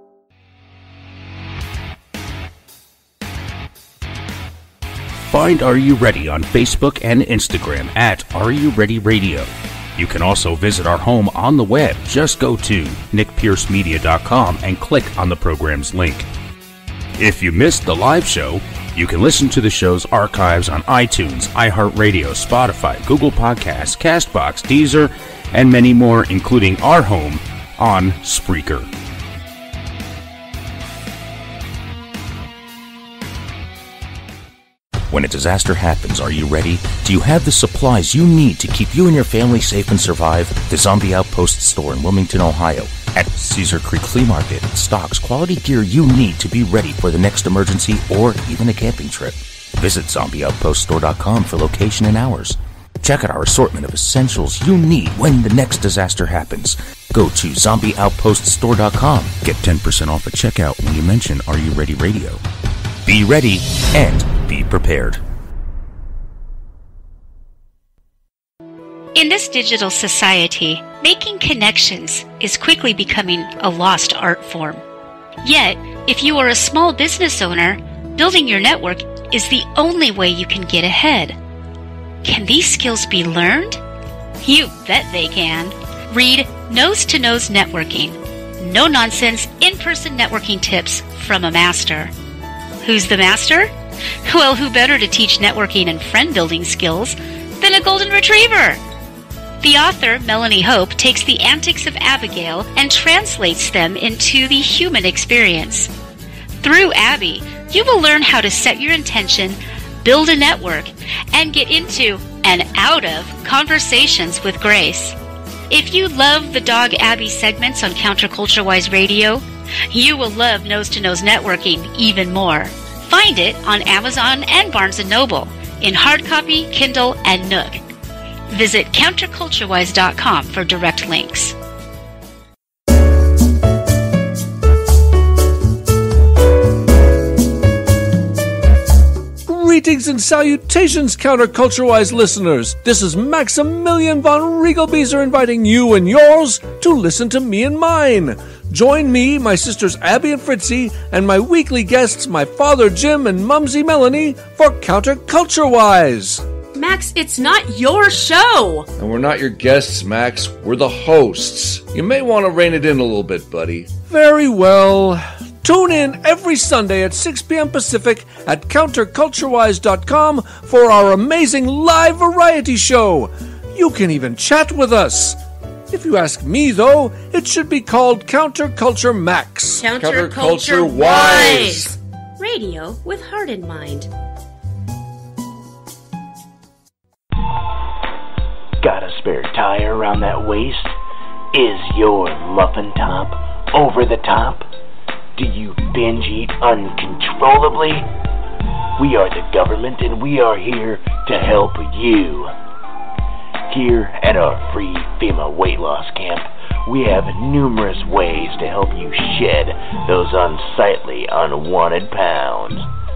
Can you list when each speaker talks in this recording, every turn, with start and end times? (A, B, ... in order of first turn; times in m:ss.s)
0:05.3-0:16.3 A
0:17.2-0:28.9 A
0:35.1-1:02.4 A
1:03.0-1:05.2 A
1:09.2-1:14.8 B
1:15.4-1:21.4 B
1:22.2-1:23.8 B
1:24.4-1:32.1 B
1:32.8-1:33.7 B
1:34.2-1:38.8 B
1:39.6-1:45.9 B
1:46.6-1:55.2 B
1:55.7-2:07.8 B
2:08.5-2:11.6 B
2:19.5-2:36.4 C
2:36.7-2:38.9 D
2:39.0-2:43.9 E
2:44.1-2:55.4 C
2:55.9-2:59.9 C
2:59.8-3:04.1 D
2:59.9-3:01.9 E
3:08.8-3:11.0 F
3:11.5-3:14.7 F
3:15.4-3:18.1 F
3:19.0-3:22.5 F
3:23.7-3:32.9 F